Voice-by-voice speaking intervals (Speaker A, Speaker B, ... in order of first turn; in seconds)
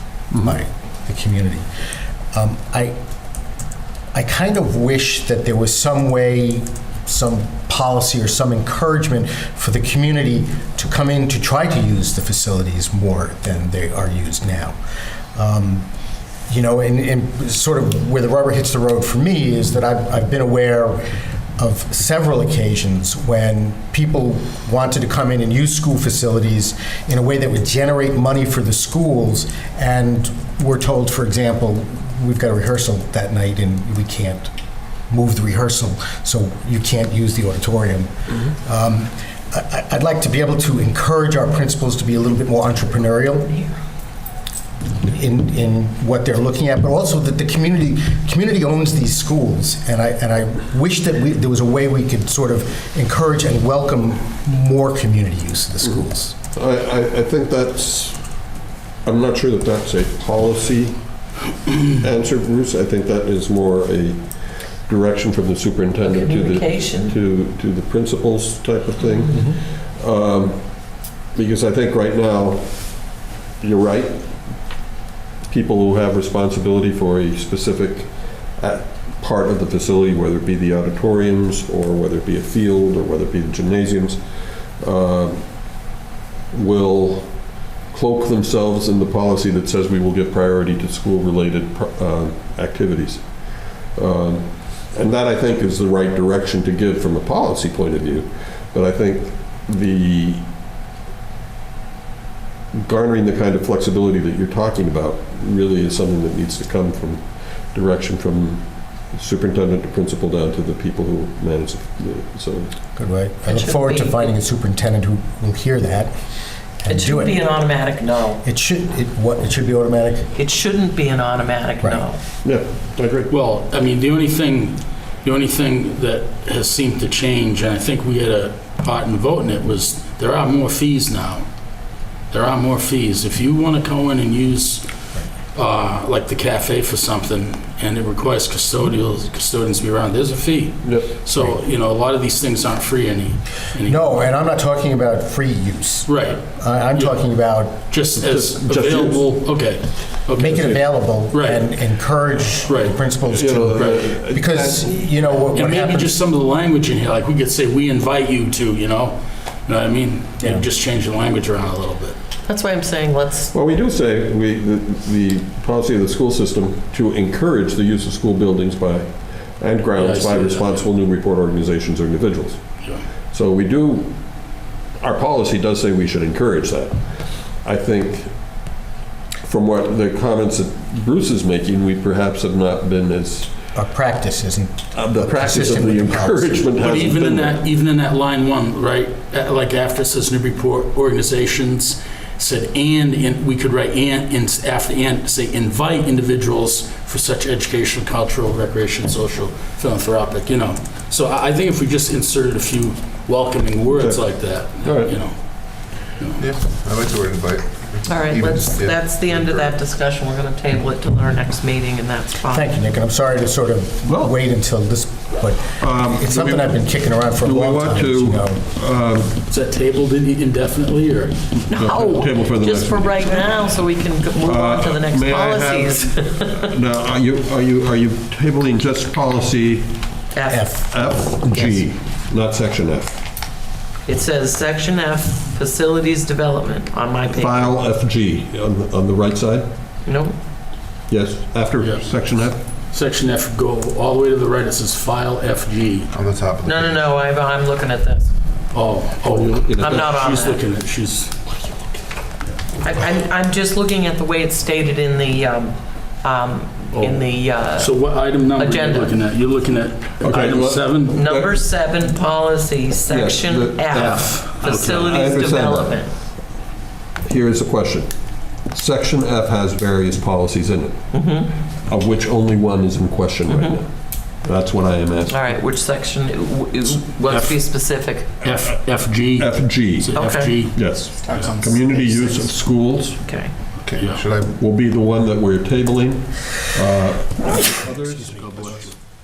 Speaker A: 0.4-1.7, 2.3-3.0, 4.1-14.8, 15.3-15.9, 16.5-34.5, 35.1-43.6, 45.0-56.4, 69.3-69.6, 113.0-116.1, 116.8-117.6, 118.4-120.3, 143.8-147.8, 150.4-156.1, 183.8-186.7, 212.5-218.6, 230.5-230.8
Speaker B: 56.5-58.3, 59.0-61.2, 61.9-70.8, 71.3-74.4, 75.5-84.2, 84.8-85.5, 86.5-87.3, 87.9-93.4, 94.0-100.5, 102.7-112.7, 122.4-123.3, 140.8-141.2, 148.2-149.3, 153.3-155.2, 163.5-172.8, 173.3-174.2, 175.0-177.1, 177.6-178.3, 179.4-183.5, 184.9-187.6, 204.8-205.2, 214.1-214.4, 215.8-216.8, 217.4-219.4, 221.7-223.7, 224.4-230.1, 230.9-233.2, 237.3-239.7, 241.1-242.6, 249.3-250.1, 260.2-261.6, 263.1-266.0, 267.2-268.1, 268.7-271.1, 271.9-273.9, 274.4-275.6, 279.4-283.2, 284.6-288.8
Speaker C: 66.0-67.2, 113.4-114.3, 116.9-118.4, 120.4-122.2, 162.5-163.5, 208.1-212.7, 221.7-226.7, 230.3-231.7, 234.1-237.8, 240.1-240.4, 246.7-248.3, 249.8-250.6, 252.8-257.9, 258.5-259.1, 261.1-266.1, 271.1-271.6, 273.5-273.8, 275.3-278.4, 280.1-280.7, 283.2-283.6
Speaker D: 123.3-131.5, 132.3-134.9, 135.5-144.3, 146.1-147.2, 147.8-151.7, 152.7-153.0, 155.5-162.2, 170.0-170.9, 186.8-206.4, 219.5-221.6, 241.8-246.1, 248.7-251.6, 256.9-261.2, 263.9-265.3, 277.3-277.6, 278.4-281.9, 283.9-284.3, 288.1-288.9
Speaker E: 206.4-209.8, 246.1-247.1, 281.4-281.9, 283.8-284.6